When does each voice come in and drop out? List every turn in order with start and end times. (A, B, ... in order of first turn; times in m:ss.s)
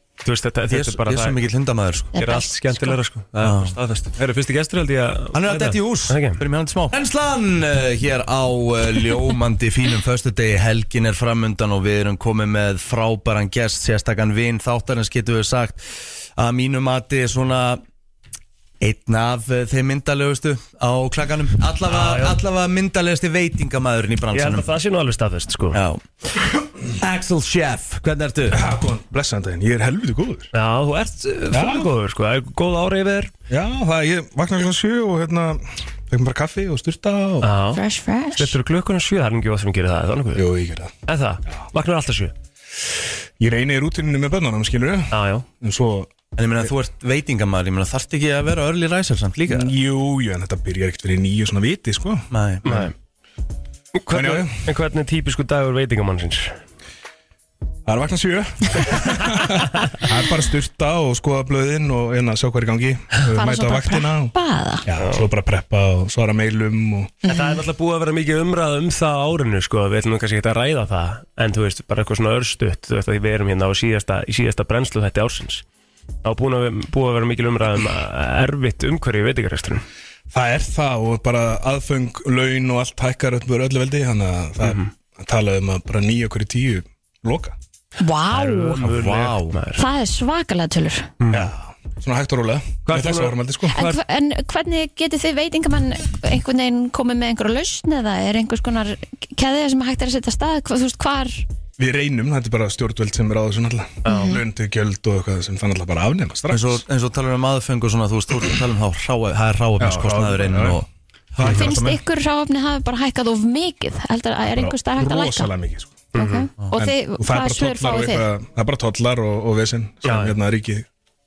0:00.2-0:01.4 A
0:00.7-0:02.2 B
0:02.2-0:03.0 C
0:02.2-0:06.4 A
0:03.4-0:03.8 B
0:05.3-0:15.8 B
0:16.4-0:17.8 B
0:18.8-0:24.7 B
0:21.9-0:22.4 A
0:24.3-0:25.8 A
0:25.7-0:26.1 B
0:27.0-0:28.6 B
0:28.5-0:30.5 D
0:30.5-0:33.3 A
0:31.5-0:31.9 D
0:33.5-0:37.5 D
0:37.4-0:37.8 A
0:37.7-0:38.6 C
0:38.4-0:40.4 A
0:40.3-0:40.9 D
0:41.1-0:42.3 A
0:43.4-0:46.7 D
0:45.1-0:45.5 A
0:46.4-0:49.7 B
0:49.5-0:52.3 D
0:52.3-0:52.8 B
0:52.6-0:52.9 A
0:54.1-0:56.6 A
0:54.1-0:54.6 D
0:57.9-1:04.3 D
1:03.3-1:04.8 C
1:04.9-1:07.2 D
1:05.0-1:05.2 A
1:07.2-1:07.6 C
1:07.3-1:15.6 A
1:16.2-1:19.8 A
1:20.3-1:27.6 D
1:24.6-1:24.9 A
1:28.0-1:28.8 C
1:28.3-1:29.8 A
1:28.8-1:29.6 B
1:29.8-1:31.1 C
1:31.2-1:31.5 A
1:31.3-1:33.8 D
1:32.9-1:33.9 A
1:33.7-1:41.5 C
1:41.8-1:46.8 D
1:44.0-1:44.4 C
1:46.5-1:50.9 B
1:49.8-1:50.8 D
1:51.4-1:52.0 D
1:51.4-1:55.5 C
1:54.4-1:56.1 D
1:56.1-1:58.3 C
1:56.2-1:56.5 A
1:56.7-2:00.9 D
2:00.0-2:00.4 A